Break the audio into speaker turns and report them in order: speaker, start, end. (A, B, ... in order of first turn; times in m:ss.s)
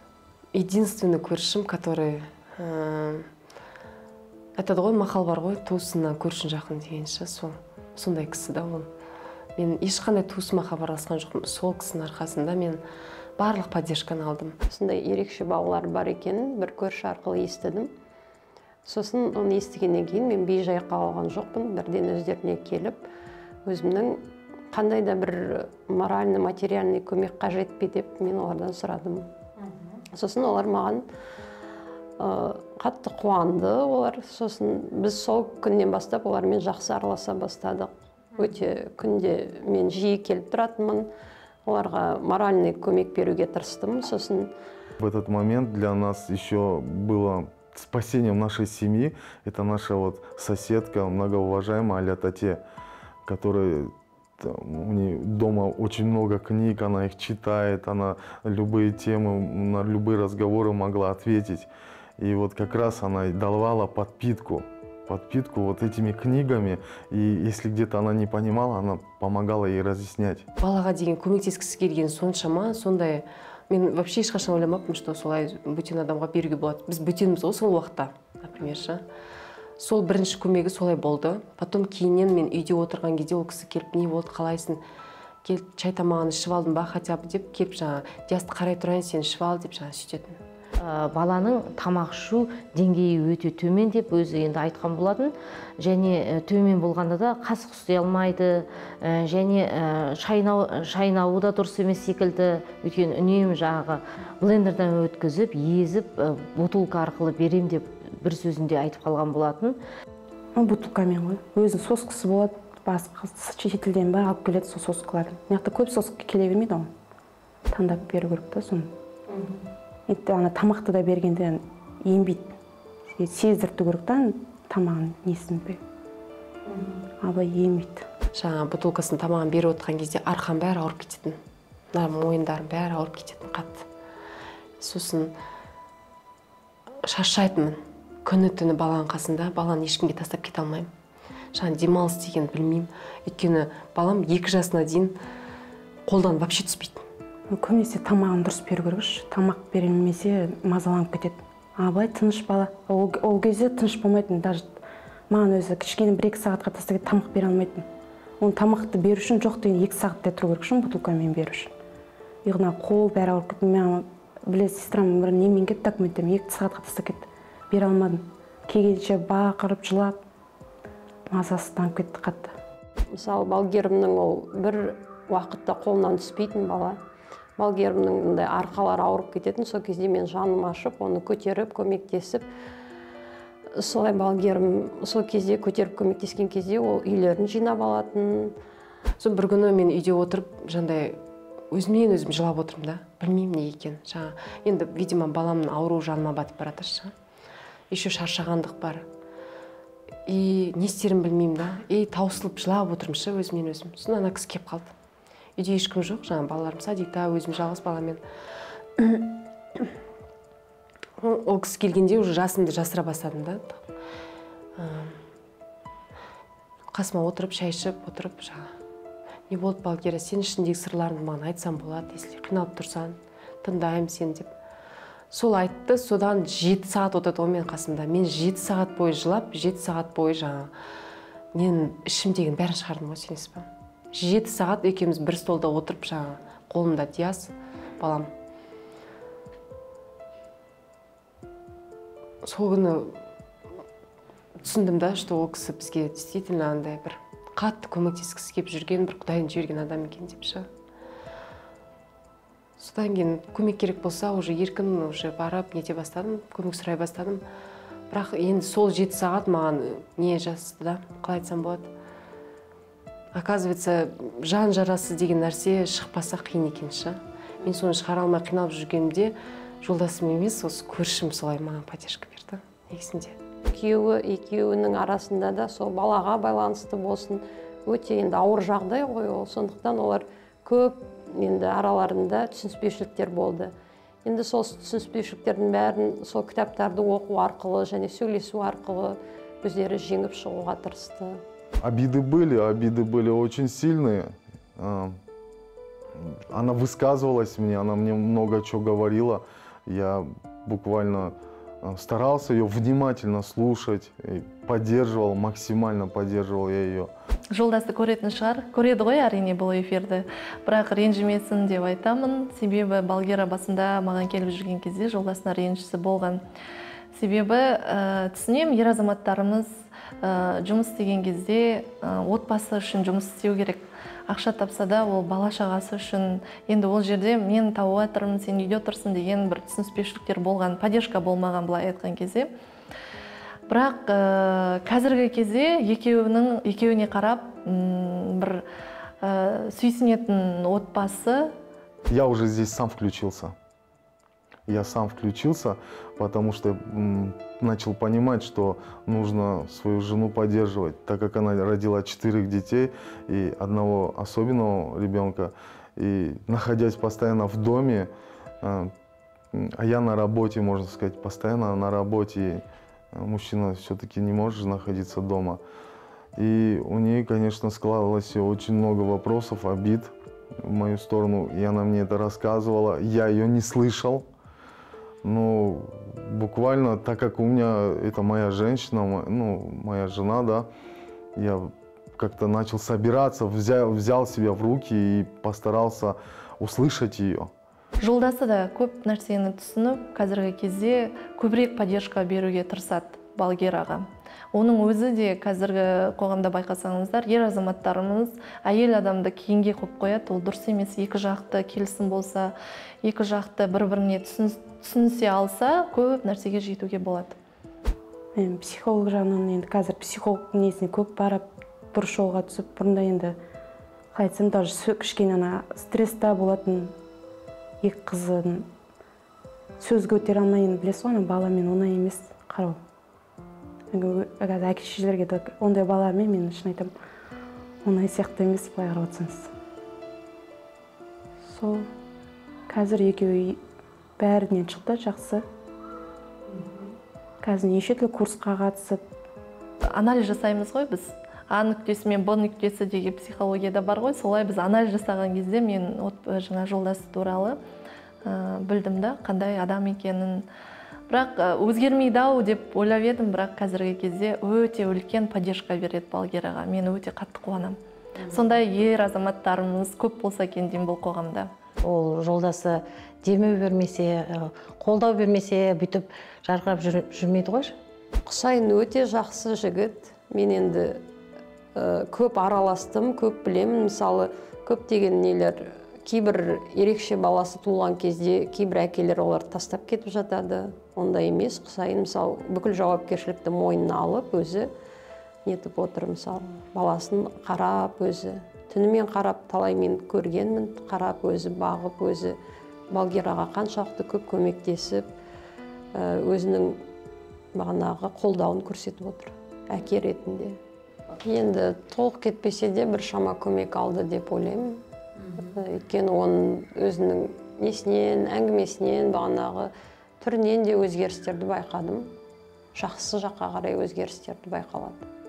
0:00.5-0:03.3 A
0:04.6-0:08.9 A
0:09.6-0:12.8 A
0:13.4-0:14.6 A
0:14.7-0:17.9 B
0:18.8-0:23.1 B
0:23.7-0:29.3 B
0:30.1-0:31.0 B
0:32.2-0:41.1 B
0:41.7-0:44.5 B
0:45.0-0:52.6 C
0:53.2-1:10.5 C
1:10.6-1:19.0 A
1:19.8-1:24.8 A
1:25.4-1:30.4 A
1:30.8-1:49.8 D
1:50.6-1:56.9 E
1:57.7-1:58.9 E
2:00.1-2:02.6 E
2:03.1-2:05.8 E
2:07.2-2:08.1 E
2:08.3-2:11.4 A
2:11.9-2:13.9 A
2:14.8-2:15.3 A
2:17.0-2:20.9 A
2:21.5-2:25.2 A
2:26.1-2:27.0 A
2:27.5-2:37.9 E
2:38.4-2:41.7 E
2:42.4-2:50.2 E
2:51.3-2:52.5 E
2:53.1-2:57.0 B
2:57.6-3:02.5 B
3:03.8-3:08.6 B
3:09.2-3:11.2 A
3:11.7-3:17.1 A
3:17.9-3:19.0 A
3:20.3-3:24.9 A
3:25.6-3:28.2 A
3:29.0-3:29.9 A
3:31.2-3:33.8 A
3:34.8-3:35.2 A
3:36.9-3:38.7 A
3:39.5-3:44.5 A
3:45.3-3:50.7 A
3:51.6-3:58.3 A
4:02.4-4:03.2 A
4:04.6-4:10.7 A
4:12.8-4:17.4 A
4:18.1-4:21.9 A
4:23.3-4:33.4 A
4:33.7-4:43.7 B
4:44.2-4:51.4 B
4:51.8-4:55.2 C
4:56.2-5:07.1 C
5:07.5-5:16.4 F
5:17.1-5:32.5 F
5:33.7-5:38.6 F
5:39.2-5:41.5 F
5:42.1-5:43.6 C
5:44.7-5:58.9 C
5:59.5-6:05.6 C
6:06.4-6:14.3 C
6:15.2-6:20.7 C
6:21.4-6:27.5 C
6:28.0-6:47.4 F
6:48.4-6:53.4 E
6:54.1-6:57.0 E
6:57.8-6:58.7 E
6:59.8-7:02.8 E
7:03.9-7:06.9 E
7:07.8-7:09.5 E
7:11.4-7:11.9 E
7:12.7-7:13.6 E
7:14.2-7:15.4 E
7:17.4-7:19.0 E
7:19.9-7:27.6 F
7:28.2-7:30.5 F
7:31.1-7:41.5 F
7:41.8-7:47.8 G
7:48.2-7:51.0 B
7:51.8-8:04.7 B
8:05.4-8:12.4 B
8:12.9-8:15.1 B
8:15.9-8:16.8 B
8:17.6-8:20.6 B
8:21.1-8:32.1 B
8:32.8-8:35.1 B